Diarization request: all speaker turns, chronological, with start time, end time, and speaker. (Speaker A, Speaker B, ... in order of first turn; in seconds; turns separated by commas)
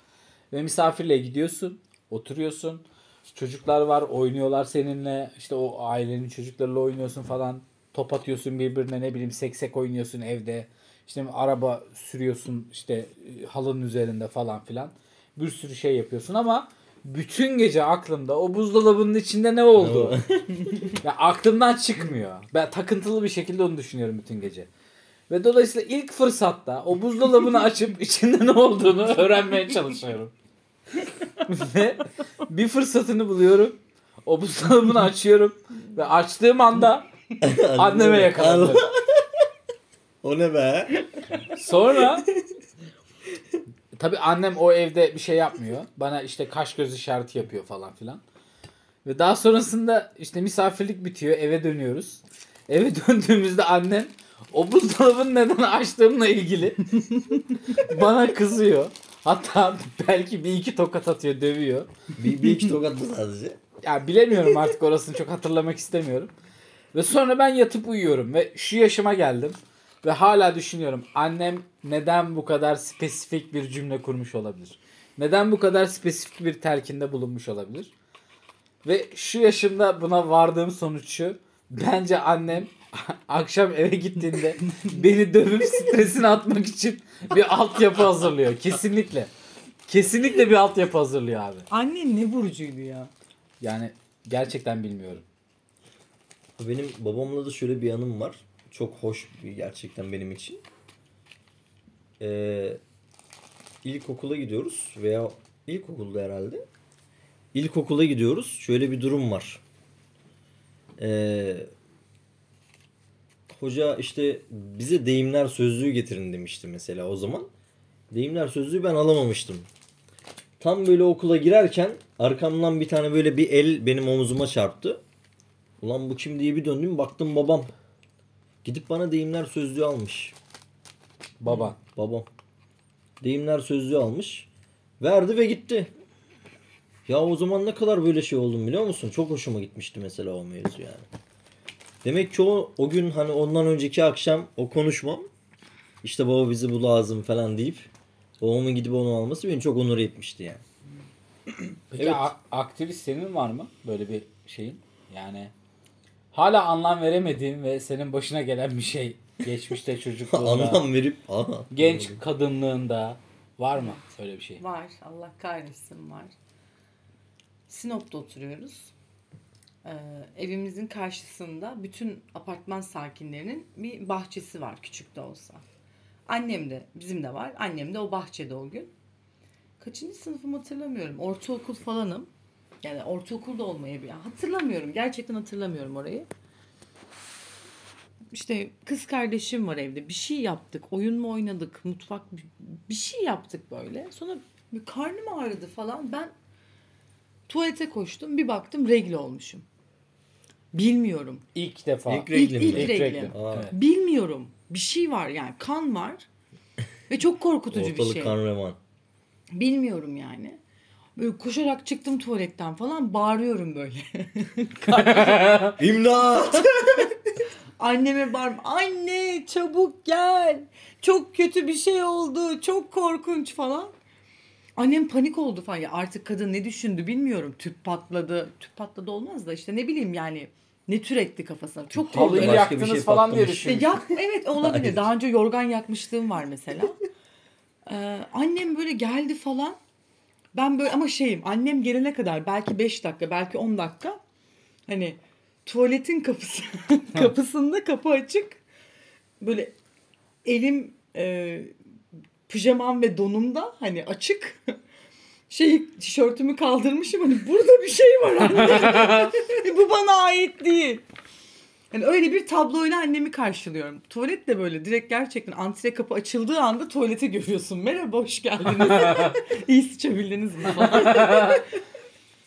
Speaker A: 0.5-20.2, Speaker B: 19.8-20.9, Speaker A: 21.0-24.7, Speaker A: 25.3-30.3, Speaker A: 31.4-37.1, Speaker B: 37.4-39.4, Speaker A: 37.8-38.9, Speaker B: 40.2-41.1, Speaker A: 41.5-42.3, Speaker A: 44.0-48.2, Speaker A: 49.0-57.0, Speaker A: 57.7-61.9, Speaker B: 62.2-63.6, Speaker A: 63.8-66.3, Speaker A: 66.9-77.9, Speaker A: 78.8-89.3, Speaker C: 84.6-84.9, Speaker A: 89.9-91.7, Speaker C: 91.7-93.1, Speaker A: 93.6-95.2, Speaker B: 96.6-100.6, Speaker B: 102.2-102.8, Speaker B: 103.8-106.7, Speaker B: 107.5-109.6, Speaker B: 111.0-111.7, Speaker B: 113.5-117.5, Speaker B: 118.1-119.7, Speaker B: 120.6-125.0, Speaker B: 125.8-127.7, Speaker B: 128.6-130.4, Speaker A: 131.4-131.8, Speaker B: 131.8-132.3, Speaker B: 133.2-134.5, Speaker B: 135.0-135.9, Speaker B: 137.1-141.1, Speaker B: 142.0-145.3, Speaker B: 146.0-147.9, Speaker B: 148.4-150.6, Speaker A: 151.9-155.5, Speaker B: 152.0-152.3, Speaker A: 156.3-160.9, Speaker B: 160.3-162.2, Speaker A: 161.7-164.6, Speaker C: 164.6-166.3, Speaker C: 167.7-168.9, Speaker C: 169.8-175.6, Speaker C: 176.3-178.9, Speaker C: 179.8-182.3, Speaker C: 182.8-186.3, Speaker C: 188.3-196.3, Speaker C: 197.5-199.7, Speaker C: 200.7-201.5, Speaker A: 201.6-203.7, Speaker B: 202.1-203.7, Speaker C: 202.3-206.3, Speaker C: 207.1-208.3, Speaker B: 207.7-208.8, Speaker C: 209.5-210.6, Speaker C: 211.2-215.7, Speaker A: 214.9-215.8, Speaker B: 215.8-217.1, Speaker C: 217.8-223.9, Speaker C: 224.8-232.7, Speaker B: 231.9-234.0, Speaker A: 232.1-233.9, Speaker C: 233.7-237.0, Speaker B: 234.6-235.1, Speaker C: 237.9-239.8, Speaker C: 240.5-244.2, Speaker C: 244.9-248.6, Speaker C: 249.4-249.8, Speaker C: 250.4-251.7, Speaker C: 252.5-254.8, Speaker C: 255.5-261.0, Speaker A: 258.5-259.3, Speaker C: 261.9-271.7, Speaker A: 268.8-269.4, Speaker A: 270.8-271.6